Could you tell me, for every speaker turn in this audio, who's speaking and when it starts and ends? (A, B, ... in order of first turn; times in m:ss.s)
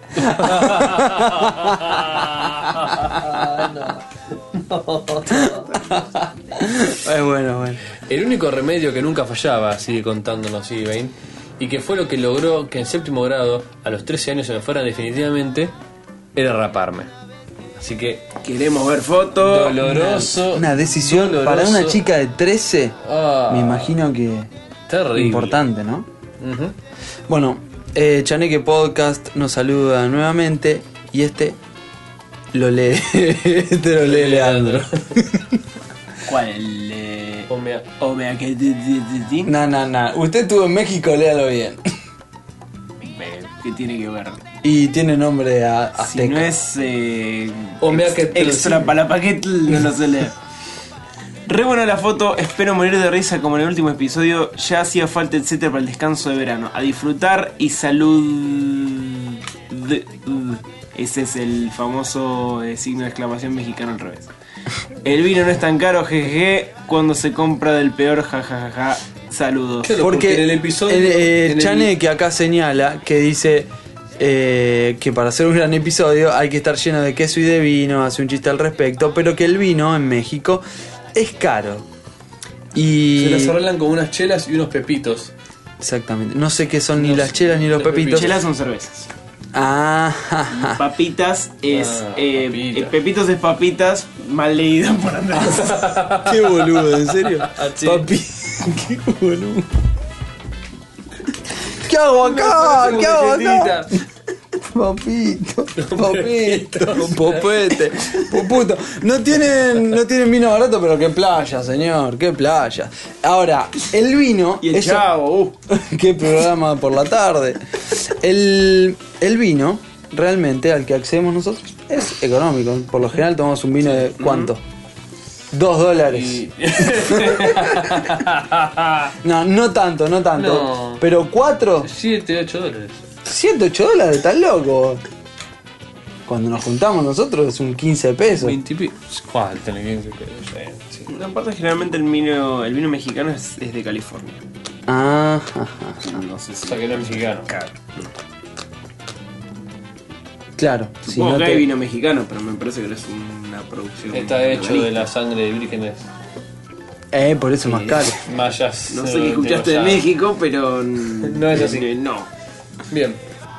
0:00.2-0:05.7 A
0:00.2-0:02.0 B
0:02.9-0:03.4 B
0:05.3-0:07.8 B
0:08.1-0:15.7 A
0:16.4-0:17.1 A
0:17.8-0:18.2 A
0:18.4-0:20.1 C
0:19.4-0:22.0 A
0:19.8-0:23.0 B
0:23.0-0:24.0 A
0:23.5-0:24.5 B
0:24.9-0:25.6 A
0:25.1-0:26.1 B
0:26.4-0:26.7 A
0:27.3-0:31.6 B
0:32.5-0:35.6 B
0:34.0-0:35.1 A
0:36.2-0:37.5 C
0:37.5-0:37.8 A
0:38.0-0:39.5 C
0:39.4-0:41.8 B
0:43.0-0:44.4 C
0:44.6-0:46.5 B
0:46.0-0:50.3 C
0:47.8-0:48.9 A
0:51.5-1:04.3 C
1:05.0-1:10.0 C
1:09.8-1:11.9 A
1:10.0-1:20.6 B
1:21.1-1:21.8 B
1:22.7-1:23.6 B
1:23.2-1:25.3 A
1:25.8-1:28.4 B
1:27.0-1:28.3 A
1:28.1-1:29.1 C
1:29.5-1:30.8 B
1:30.5-1:36.0 C
1:31.7-1:32.9 A
1:35.4-1:38.1 A
1:36.2-1:39.7 B
1:41.7-1:44.0 B
1:42.2-1:44.0 A
1:44.6-1:55.1 B
1:45.8-1:47.7 A
1:54.6-1:55.5 C
1:55.7-2:04.6 B
2:04.2-2:04.5 C
2:05.5-2:08.1 B
2:06.6-2:09.1 A
2:09.2-2:11.9 B
2:10.4-2:11.0 A
2:11.8-2:13.0 A
2:13.2-2:15.0 B
2:16.2-2:18.6 B
2:18.4-2:21.1 A
2:21.1-2:24.4 C
2:24.9-2:26.2 B
2:26.0-2:28.1 C
2:26.6-2:27.5 A
2:30.6-2:31.6 B
2:31.0-2:35.0 C
2:34.1-2:36.0 A
2:37.1-2:38.2 B
2:37.7-2:38.1 C
2:38.2-2:40.1 A
2:38.9-2:42.3 C
2:41.2-2:41.9 A
2:42.9-2:43.2 A